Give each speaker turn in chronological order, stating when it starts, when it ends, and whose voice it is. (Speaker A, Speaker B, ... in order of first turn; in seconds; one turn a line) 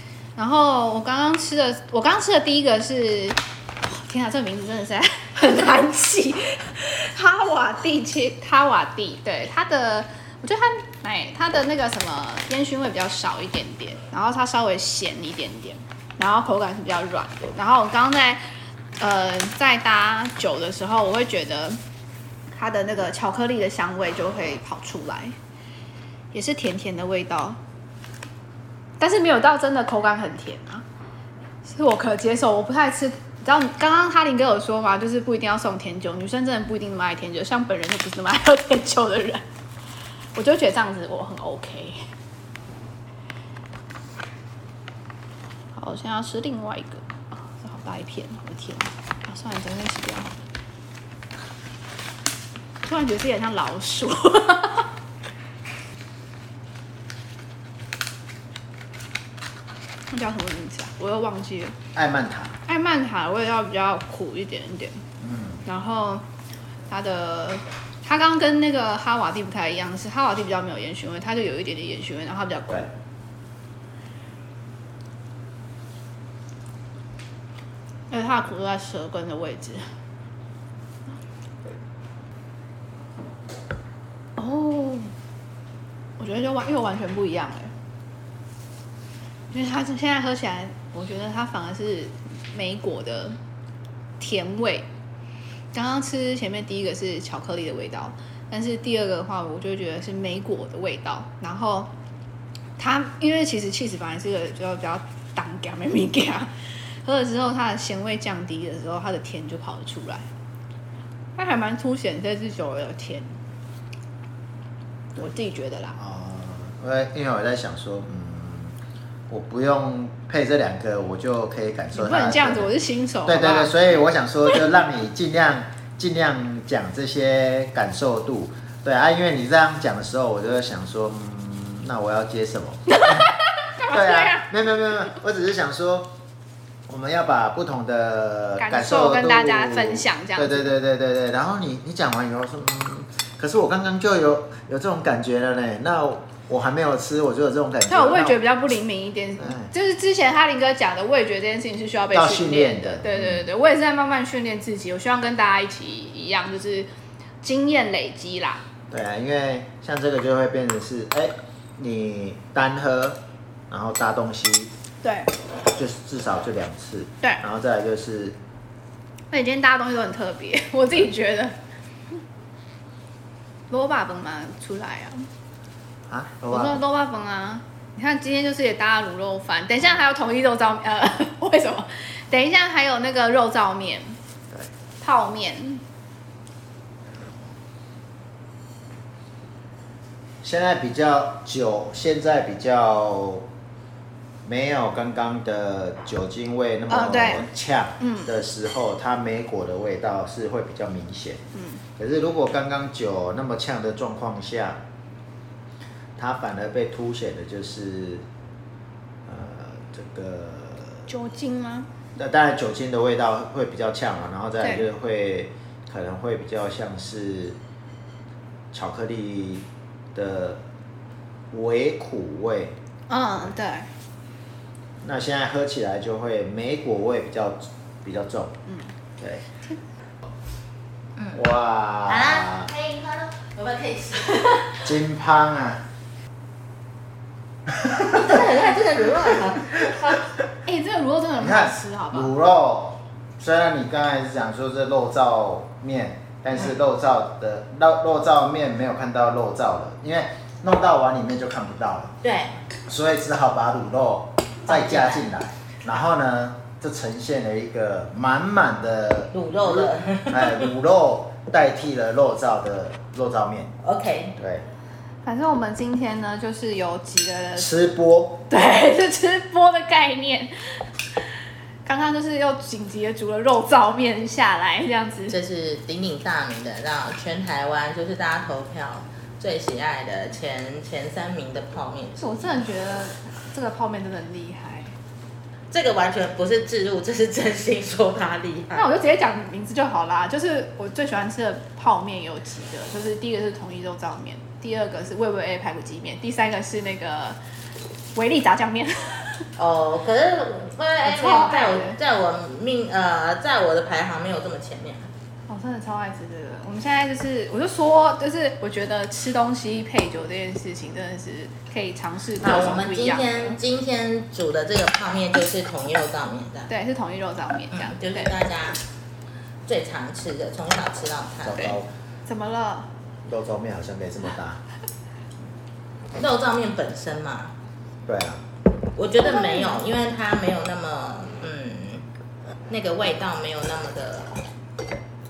Speaker A: 0.4-18.4
Speaker A: 19.0-21.8
Speaker A: 22.5-25.4
Speaker A: 26.3-27.6
Speaker A: 29.0-30.9
Speaker A: 31.6-39.4
Speaker A: 40.4-42.0
Speaker A: 45.7-50.4
Speaker A: 52.9-54.9
Speaker A: 60.1-61.8
Speaker B: 62.0-62.6
Speaker A: 62.7-65.0
Speaker B: 65.2-65.7
Speaker A: 65.7-66.2
Speaker A: 66.9-72.9
Speaker A: 78.1-79.8
Speaker A: 84.4-85.1
Speaker A: 86.2-87.7
Speaker A: 89.5-93.4
Speaker A: 94.2-94.9
Speaker A: 95.7-101.9
Speaker A: 102.8-106.5
Speaker A: 107.0-110.3
Speaker A: 111.4-113.3
Speaker A: 115.2-116.0
Speaker B: 116.0-118.8
Speaker B: 119.3-122.7
Speaker A: 121.9-124.0
Speaker B: 123.3-133.3
Speaker A: 132.9-134.5
Speaker B: 133.8-136.1
Speaker B: 136.9-148.4
Speaker A: 138.6-140.7
Speaker A: 147.9-156.9
Speaker B: 149.4-149.7
Speaker B: 152.1-153.5
Speaker A: 157.4-158.6
Speaker B: 158.9-164.7
Speaker A: 165.0-165.3
Speaker B: 165.7-168.4
Speaker A: 169.3-171.5
Speaker A: 173.7-175.3
Speaker B: 176.1-176.8
Speaker A: 176.5-184.2
Speaker A: 185.0-185.8
Speaker B: 190.4-193.5
Speaker B: 194.4-201.4
Speaker A: 196.9-197.5
Speaker A: 198.0-198.3
Speaker A: 201.6-201.8
Speaker B: 202.0-204.8
Speaker B: 206.2-208.2
Speaker B: 209.3-211.1
Speaker A: 211.1-211.9
Speaker B: 212.2-217.6
Speaker A: 214.6-214.9
Speaker B: 218.7-220.6
Speaker B: 221.5-222.8
Speaker A: 223.1-223.9
Speaker B: 225.0-228.6
Speaker B: 229.2-229.4
Speaker C: 231.2-231.4
Speaker B: 231.3-232.7
Speaker C: 232.1-234.9
Speaker B: 234.8-235.8
Speaker B: 237.7-238.2
Speaker C: 238.0-240.2
Speaker A: 240.7-242.3
Speaker B: 241.4-252.2
Speaker C: 252.2-252.6
Speaker B: 252.9-263.8
Speaker C: 254.7-255.2
Speaker C: 259.3-260.7
Speaker C: 263.8-264.4
Speaker B: 264.4-264.7
Speaker A: 265.2-267.7
Speaker B: 267.6-268.5
Speaker A: 268.5-270.5
Speaker A: 271.9-275.4
Speaker C: 275.3-282.6
Speaker A: 282.2-284.9
Speaker C: 285.7-288.9
Speaker A: 288.8-297.4
Speaker A: 298.1-299.5
Speaker C: 299.6-305.1
Speaker A: 301.0-302.0
Speaker A: 305.5-313.6
Speaker C: 312.4-316.7
Speaker A: 316.7-318.4
Speaker C: 317.7-318.8
Speaker C: 319.6-321.7
Speaker B: 321.4-321.9
Speaker A: 321.6-322.9
Speaker B: 323.2-324.6
Speaker C: 326.1-327.5
Speaker B: 328.1-328.4
Speaker C: 328.9-332.1
Speaker A: 329.2-329.8
Speaker C: 332.7-334.4